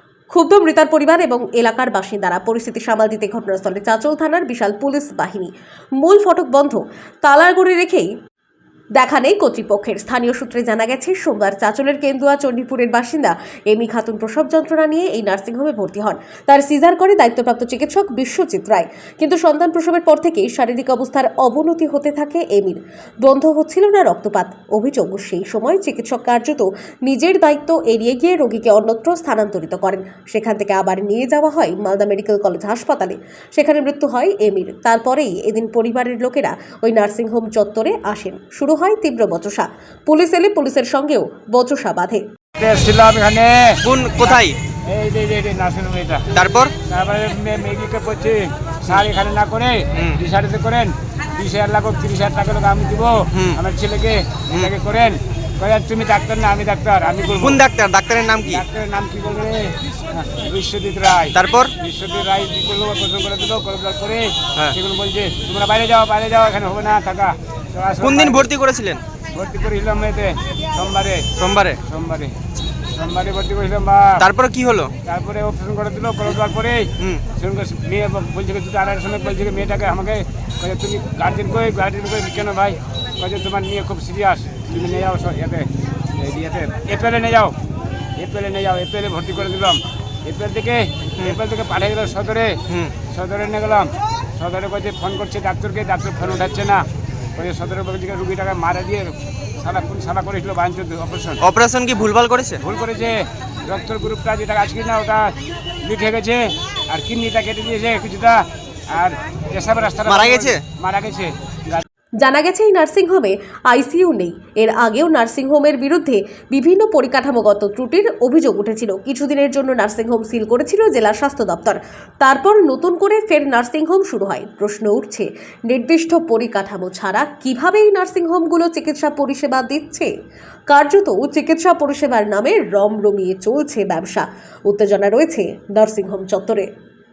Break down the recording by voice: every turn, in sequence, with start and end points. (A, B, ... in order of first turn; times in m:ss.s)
0:00.3-0:08.1 A
0:09.0-0:42.2 A
0:42.6-0:46.3 B
0:43.8-0:44.6 C
0:46.3-0:46.7 C
0:46.9-0:57.6 B
0:53.3-0:53.6 C
0:57.4-0:58.6 C
0:58.4-1:08.5 B
1:01.3-1:01.7 C
1:08.0-1:09.0 C
1:09.3-1:12.4 B
1:11.4-1:11.8 C
1:12.9-1:14.2 B
1:14.2-1:14.9 C
1:15.0-1:27.6 B
1:28.2-1:36.8 B
1:32.7-1:32.9 C
1:37.4-1:41.4 B
1:41.4-1:42.6 C
1:42.6-1:51.8 B
1:50.1-1:50.6 C
1:52.2-2:10.1 A
2:10.7-2:16.7 A